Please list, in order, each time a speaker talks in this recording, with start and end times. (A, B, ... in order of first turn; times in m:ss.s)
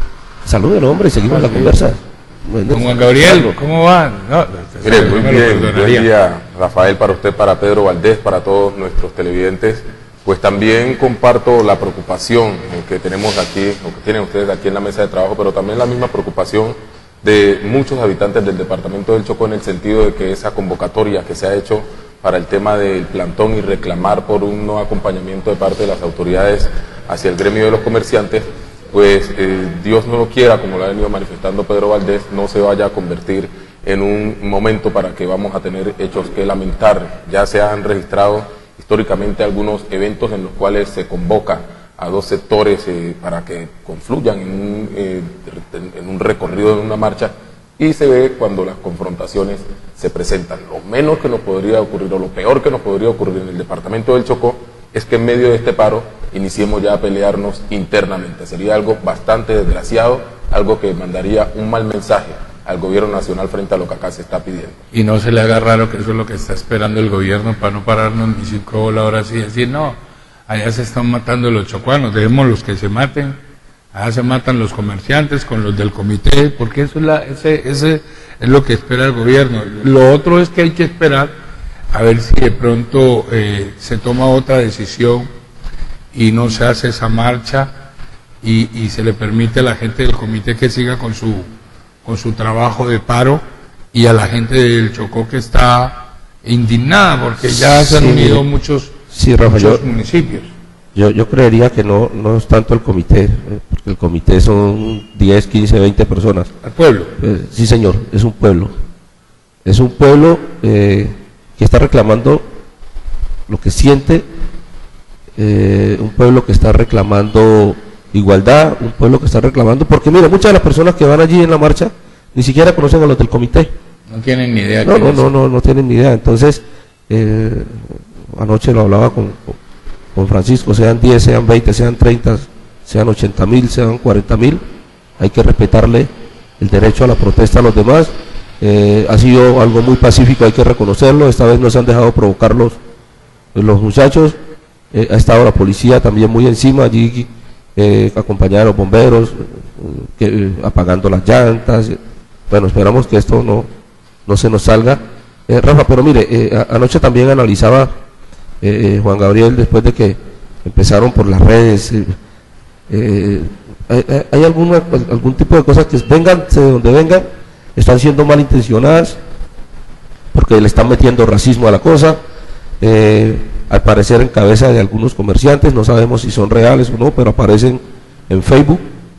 0:00.4-0:03.6 A
0:01.2-0:01.9 B
0:02.7-0:06.1 B
0:04.8-1:04.8 C
1:04.9-1:10.0 B
1:10.5-1:13.4 B
1:13.9-1:21.3 B
1:21.9-1:25.3 B
1:26.1-1:27.7 B
1:28.4-1:31.5 B
1:32.0-1:33.4 B
1:33.9-1:40.5 B
1:37.4-1:38.5 A
1:39.1-1:39.8 A
1:40.9-1:46.5 A
1:46.6-1:47.1 B
1:47.2-1:48.7 A
1:49.6-1:52.4 A
1:53.5-1:54.2 A
1:55.4-2:03.7 A
2:04.1-2:05.3 B
2:04.8-2:09.6 A
2:10.1-2:14.6 A
2:15.2-2:22.8 A
2:23.5-2:24.4 A
2:24.9-2:32.0 A
2:32.5-2:33.7 A
2:34.2-2:37.9 A
2:38.6-2:42.1 A
2:42.9-2:49.2 A
2:50.3-2:52.2 A
2:52.8-2:58.8 A